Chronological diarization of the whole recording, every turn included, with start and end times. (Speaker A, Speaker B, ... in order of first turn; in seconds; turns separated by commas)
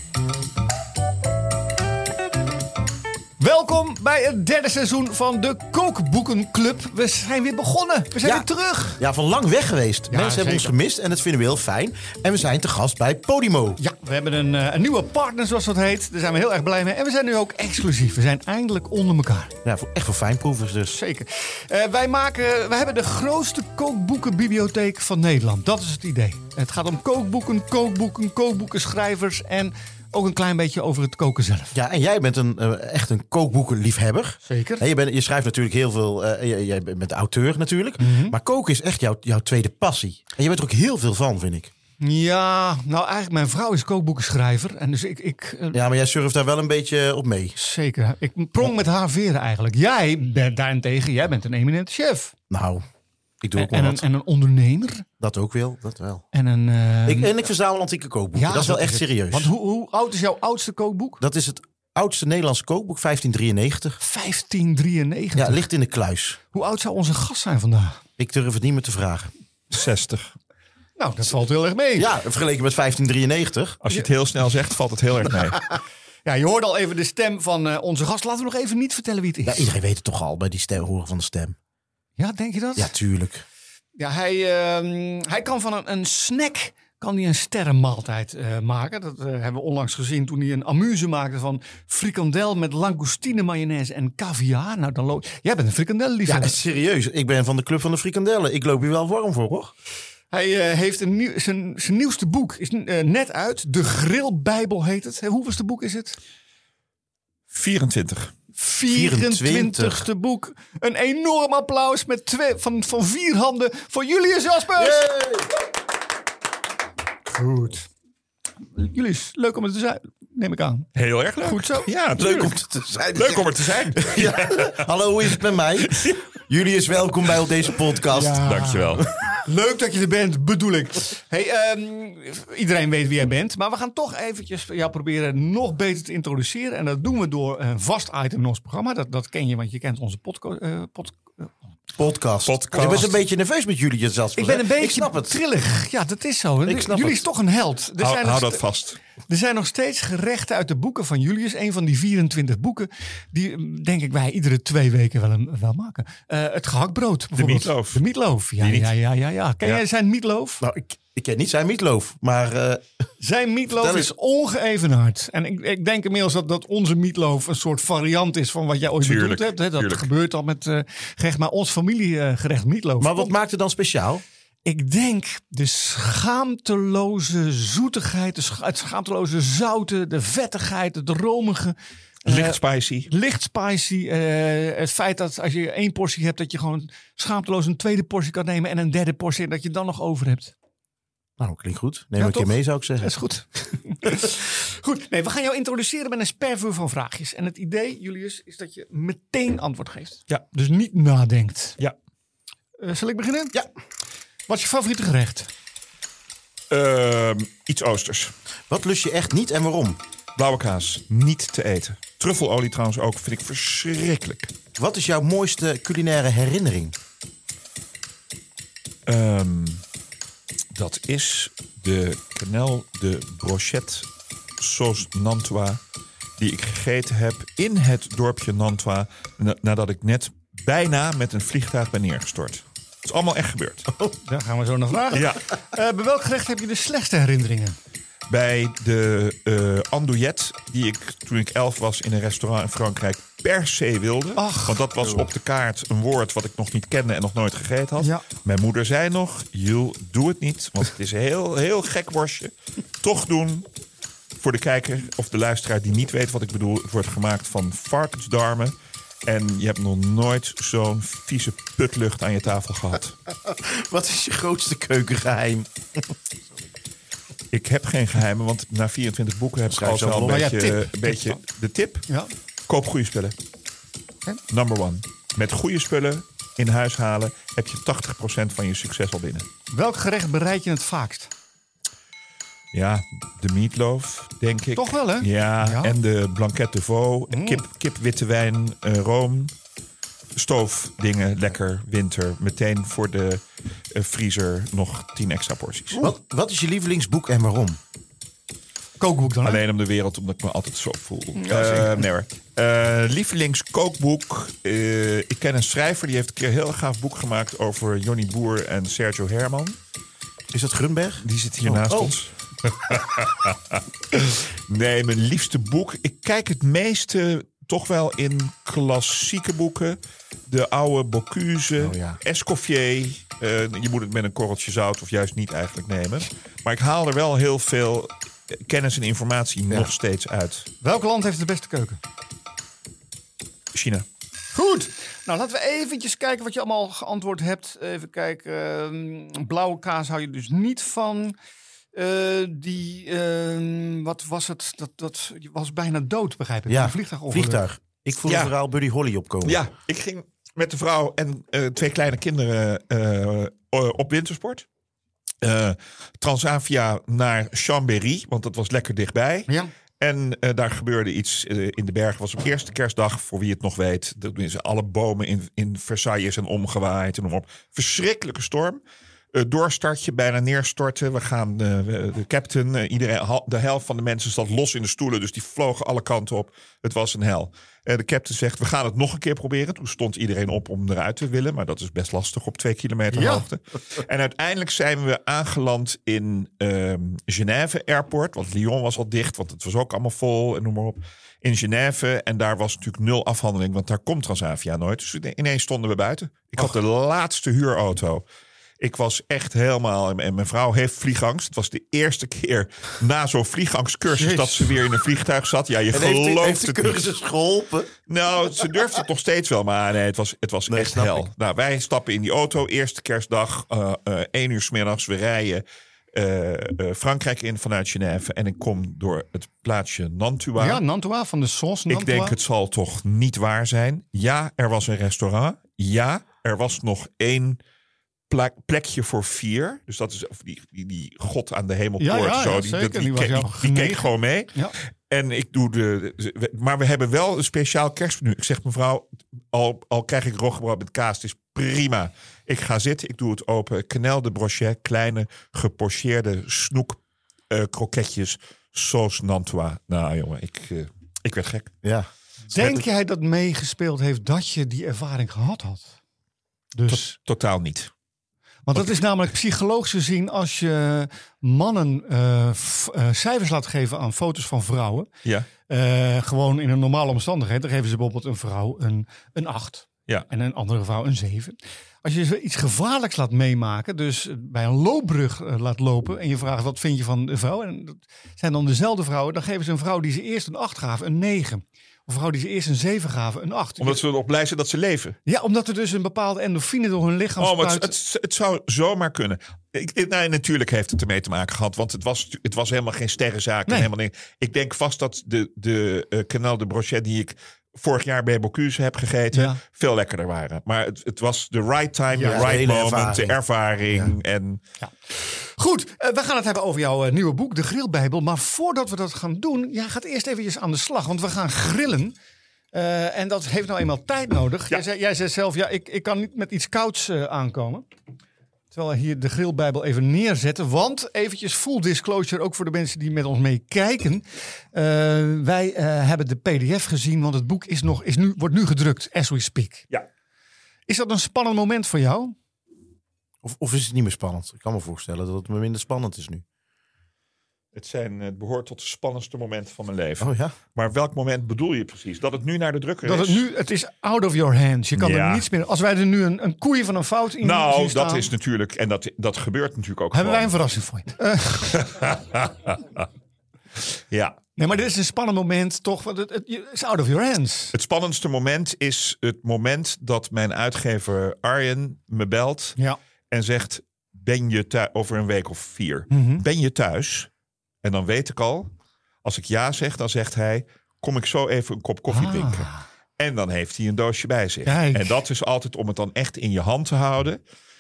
Speaker A: 3.4-9.0, Speaker B: 8.2-8.5, Speaker B: 9.0-13.8, Speaker A: 10.1-10.7, Speaker A: 13.8-19.5, Speaker B: 19.6-21.0, Speaker A: 20.9-31.8, Speaker B: 31.7-41.7, Speaker A: 34.5-34.8, Speaker A: 38.0-38.4, Speaker A: 42.0-45.8, Speaker B: 45.7-47.5, Speaker A: 47.6-52.3, Speaker B: 52.5-52.9, Speaker B: 53.4-54.0, Speaker A: 53.5-55.0, Speaker B: 55.2-56.2, Speaker A: 56.3-57.4, Speaker B: 57.0-59.5, Speaker A: 58.3-61.2, Speaker B: 61.2-64.0, Speaker A: 64.0-65.6, Speaker B: 65.3-66.4, Speaker A: 66.5-68.0, Speaker B: 68.2-69.3, Speaker C: 69.7-70.3, Speaker A: 71.0-72.1, Speaker B: 72.0-73.8, Speaker C: 73.8-75.6, Speaker A: 76.2-79.7, Speaker B: 79.4-81.6, Speaker A: 82.2-82.9, Speaker B: 82.8-83.4, Speaker A: 84.0-96.6, Speaker B: 96.2-99.7, Speaker A: 100.3-106.2, Speaker C: 107.5-108.3, Speaker A: 108.5-115.0, Speaker B: 108.9-110.0, Speaker B: 114.8-115.5, Speaker A: 117.3-117.9, Speaker A: 118.7-120.9, Speaker C: 121.0-122.6, Speaker A: 121.4-121.9, Speaker B: 122.2-128.4, Speaker C: 123.1-126.3, Speaker A: 128.1-141.5, Speaker C: 128.4-129.1, Speaker B: 142.0-145.3, Speaker C: 142.4-143.2, Speaker A: 144.3-148.6, Speaker B: 146.7-147.3, Speaker C: 148.0-149.0, Speaker A: 149.3-160.6, Speaker C: 157.3-158.0, Speaker C: 158.6-158.9, Speaker B: 160.6-163.0, Speaker A: 163.2-173.3, Speaker B: 163.8-164.1, Speaker C: 169.0-170.1, Speaker B: 173.0-174.2, Speaker A: 174.6-190.5, Speaker C: 182.2-183.1, Speaker B: 191.4-193.1, Speaker A: 192.2-201.8, Speaker A: 202.8-203.6, Speaker A: 204.5-205.5, Speaker C: 206.7-208.3, Speaker B: 208.7-210.0, Speaker C: 210.3-214.5, Speaker B: 214.8-216.9, Speaker C: 219.1-219.8, Speaker C: 220.7-224.1, Speaker C: 224.6-225.8, Speaker C: 226.4-233.9, Speaker B: 233.9-234.2, Speaker A: 234.2-237.8, Speaker C: 235.1-235.5, Speaker C: 238.3-253.7, Speaker A: 244.4-244.8, Speaker A: 248.0-248.2, Speaker C: 254.4-263.1, Speaker B: 263.4-266.5, Speaker C: 267.5-272.1, Speaker B: 269.7-270.5, Speaker A: 270.2-271.4, Speaker C: 272.7-273.4, Speaker C: 274.5-279.5, Speaker A: 279.7-281.3, Speaker C: 282.7-289.5, Speaker A: 284.8-285.9, Speaker A: 287.3-287.6, Speaker C: 290.4-296.1, Speaker B: 296.0-297.8, Speaker A: 299.0-299.6, Speaker C: 299.4-309.8, Speaker A: 301.4-302.0, Speaker B: 310.5-312.1, Speaker C: 311.2-330.7, Speaker B: 321.8-322.2, Speaker A: 330.8-332.0, Speaker C: 333.7-334.0, Speaker A: 334.5-341.3, Speaker A: 341.9-347.6, Speaker B: 346.7-349.6, Speaker C: 348.2-348.5, Speaker C: 349.4-354.6, Speaker C: 355.4-359.5, Speaker C: 360.0-368.8, Speaker C: 369.3-398.2, Speaker A: 383.1-383.4, Speaker C: 398.8-407.0, Speaker A: 404.1-404.8, Speaker B: 405.9-407.9, Speaker C: 408.1-420.8, Speaker B: 410.7-411.3, Speaker A: 420.6-422.4, Speaker C: 421.9-427.6, Speaker C: 428.3-451.7, Speaker A: 432.0-434.7, Speaker B: 451.8-452.1, Speaker A: 452.5-455.9, Speaker C: 452.5-452.8, Speaker A: 456.7-457.1, Speaker C: 456.9-457.9, Speaker A: 458.6-465.1, Speaker A: 465.7-484.0, Speaker C: 483.8-485.2, Speaker A: 485.2-487.9, Speaker C: 487.4-504.6, Speaker A: 499.3-499.6, Speaker A: 502.1-502.5, Speaker B: 502.2-503.4, Speaker A: 504.8-512.1, Speaker A: 512.7-517.9, Speaker A: 518.7-529.9, Speaker A: 530.9-532.3, Speaker B: 533.4-536.4, Speaker C: 537.7-543.4, Speaker B: 540.2-540.5, Speaker A: 543.0-548.3, Speaker C: 545.0-545.4, Speaker C: 547.4-550.5, Speaker A: 550.1-551.9, Speaker C: 551.7-553.0, Speaker C: 553.9-554.4, Speaker A: 554.6-557.7, Speaker C: 557.7-562.8, Speaker C: 563.3-567.3, Speaker A: 566.1-566.4, Speaker C: 567.8-568.7, Speaker C: 569.2-577.4, Speaker A: 572.1-572.8, Speaker A: 574.6-575.1